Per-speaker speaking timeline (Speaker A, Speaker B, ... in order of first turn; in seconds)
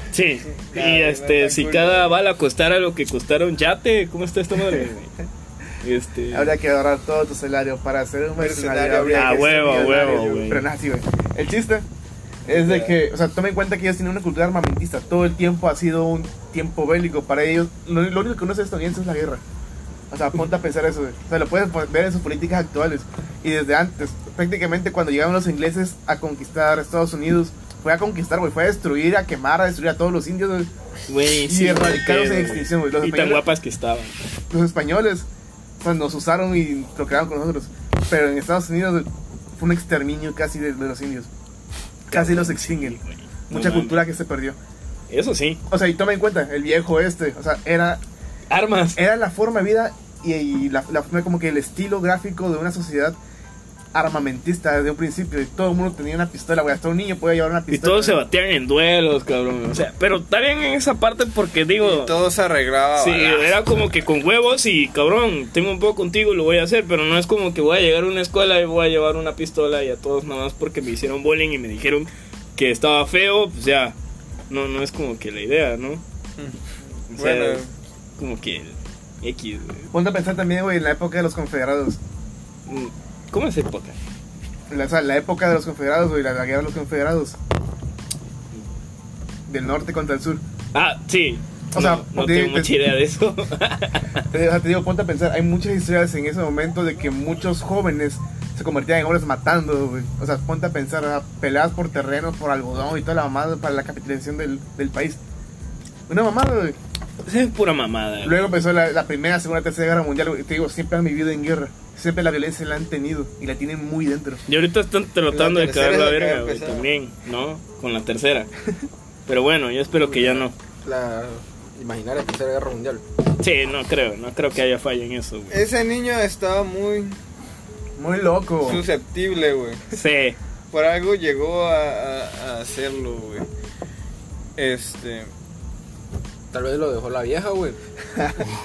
Speaker A: 0.1-5.1, 5.8-6.6, 9.1-10.7, 31.1-34.1, 42.1-44.0, 45.1-45.6, 48.5-49.0, 57.7-62.1, 63.0-74.0, 74.5-76.0, 77.1-77.6, 78.2-79.9, 82.7-84.0, 90.7-94.2, 107.2-108.4, 114.5-118.5, 119.3-120.5, 123.4-125.6, 129.9-130.4
Speaker B: 0.5-2.1, 8.4-10.5, 12.5-13.0, 61.8-63.6, 77.1-77.7, 115.3-116.9, 125.5-127.2, 128.6-129.8, 130.7-133.5, 134.6-135.3
Speaker C: 6.3-11.8, 12.5-19.4, 20.1-30.7, 31.5-33.4, 34.5-35.3, 35.8-41.3, 42.1-43.0, 43.5-44.6, 45.7-48.0, 49.0-53.2, 53.9-58.2, 79.9-82.0, 84.7-87.4, 89.5-90.4, 91.7-92.7, 94.3-105.2, 106.1-106.8, 108.2-114.4, 128.0-128.8, 138.2-138.4
Speaker D: 120.0-123.0, 136.5-137.8